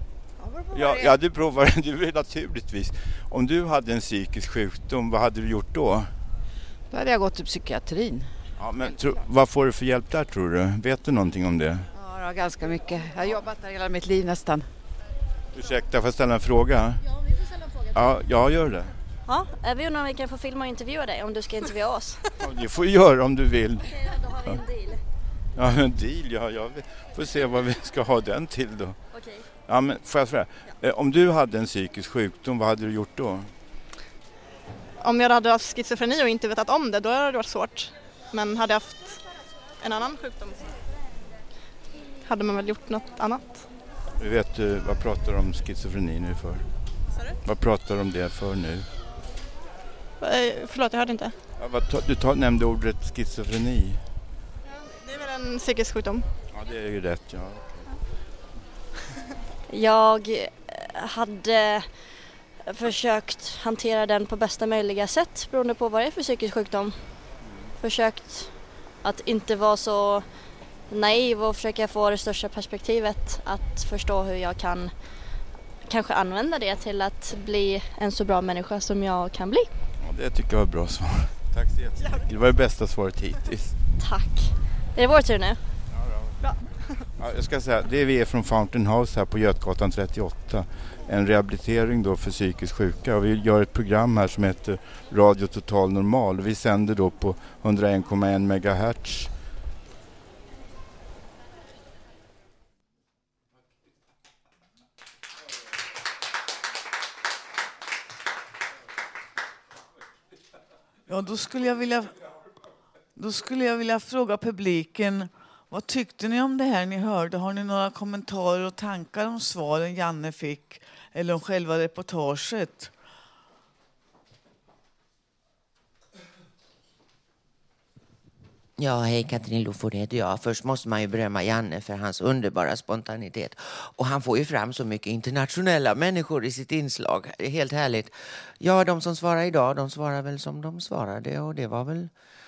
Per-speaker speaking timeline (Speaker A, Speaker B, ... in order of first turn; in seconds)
Speaker A: 0.7-6.1, 8.6-11.9, 15.5-17.1, 17.9-18.9, 22.4-24.6, 25.6-33.5, 44.2-48.9, 51.6-54.0, 56.5-57.8, 67.5-67.7, 80.0-83.8, 85.9-86.5, 87.2-99.4
Speaker B: 6.9-9.2, 11.9-14.7
Speaker C: 19.3-22.2, 59.7-79.7, 84.0-85.6
Speaker D: 35.0-40.8, 42.2-43.7, 47.1-47.4, 50.2-51.4, 54.7-56.3, 82.0-82.2, 86.4-87.0
Speaker E: 111.1-112.2, 113.2-122.9
Speaker F: 128.8-142.1